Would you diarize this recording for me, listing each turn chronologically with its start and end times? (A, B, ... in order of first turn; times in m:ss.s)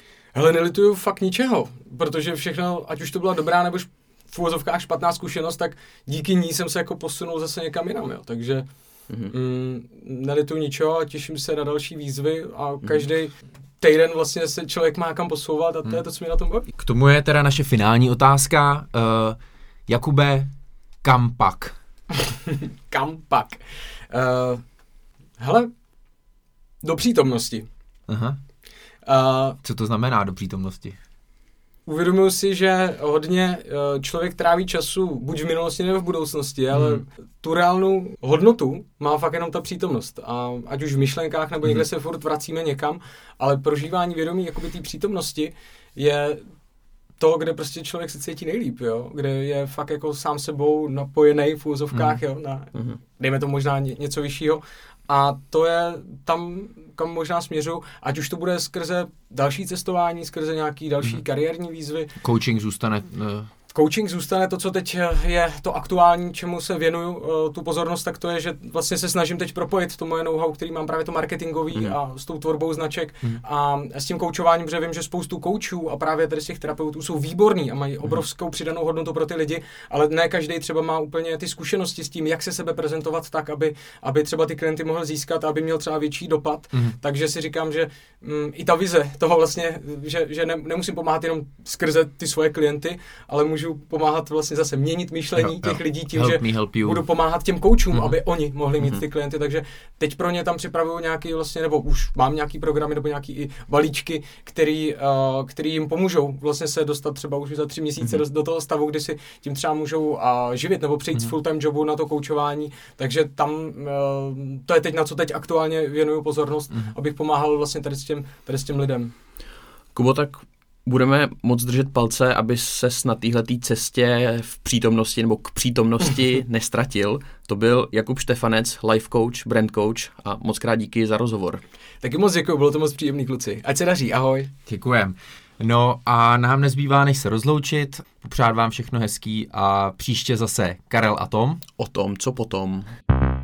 0:00.3-0:08.6 A
0:09.3-0:16.7 A
0:16.8-0:20.5 B
0:21.0-0:21.8 B
0:22.4-0:24.6 A
0:25.4-0:25.7 A
0:26.8-0:27.7 A
0:28.1-0:28.4 B
0:29.0-0:29.6 A
0:29.6-0:31.0 B
0:31.9-0:46.5 A
0:36.7-0:37.0 B
0:47.2-1:02.1 A
0:51.9-0:52.2 B
1:02.2-1:03.5 B
1:03.7-1:59.1 A
1:35.4-1:37.0 B
1:59.9-2:11.6 C
2:12.0-2:14.5 A
2:14.6-2:21.6 B
2:21.8-2:22.9 C